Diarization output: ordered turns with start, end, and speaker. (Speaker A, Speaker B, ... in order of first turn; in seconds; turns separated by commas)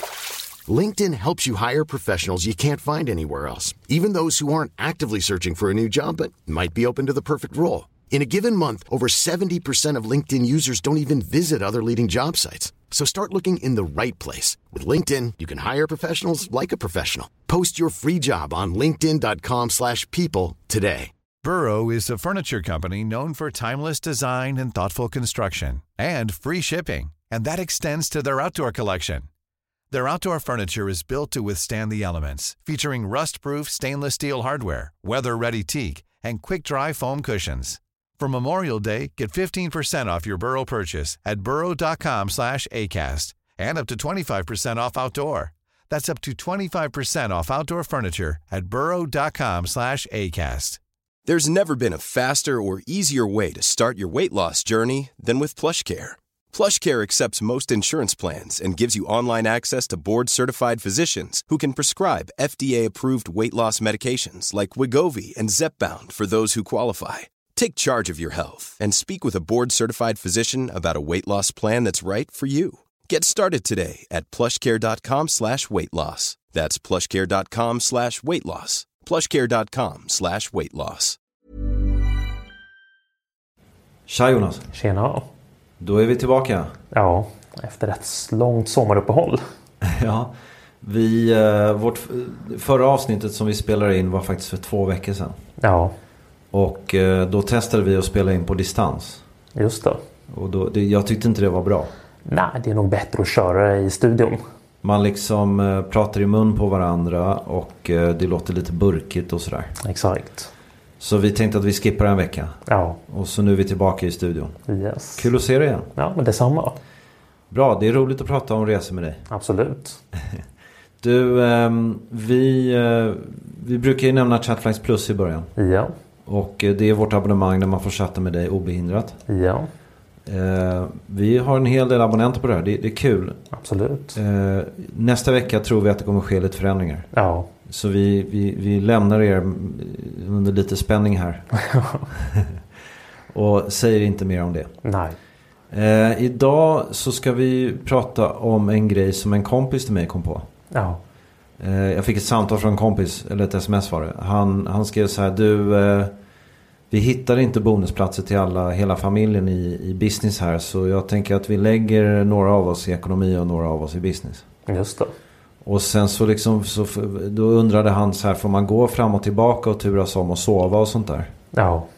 Speaker A: 0.7-21.1, Speaker B: 21.4-29.2, Speaker B: 29.9-50.8, Speaker C: 51.2-81.2, Speaker D: 84.1-84.7, Speaker E: 84.7-85.2, Speaker D: 85.8-86.7, Speaker E: 86.9-89.4, Speaker D: 89.8-95.4, Speaker E: 95.6-95.9, Speaker D: 96.5-99.2, Speaker E: 99.5-100.0, Speaker D: 100.3-101.9, Speaker E: 102.2-104.4, Speaker D: 104.8-109.8, Speaker E: 109.8-110.5, Speaker D: 111.0-114.6, Speaker E: 112.7-113.0, Speaker E: 114.7-115.3, Speaker D: 115.2-115.9, Speaker E: 115.9-116.8, Speaker D: 117.5-119.3, Speaker E: 119.3-120.0, Speaker D: 121.0-125.5, Speaker E: 125.6-125.9, Speaker D: 126.2-129.2, Speaker E: 129.3-129.7, Speaker D: 130.2-133.4, Speaker E: 133.5-134.2, Speaker D: 134.1-137.1, Speaker E: 137.1-137.5, Speaker D: 137.7-141.4, Speaker E: 141.6-142.0, Speaker D: 142.1-142.6, Speaker D: 143.3-144.7, Speaker E: 144.8-145.2, Speaker D: 145.7-150.5, Speaker E: 150.7-151.0, Speaker D: 151.6-156.1, Speaker D: 156.9-164.4, Speaker E: 164.7-165.1, Speaker D: 165.6-171.3, Speaker E: 171.5-171.9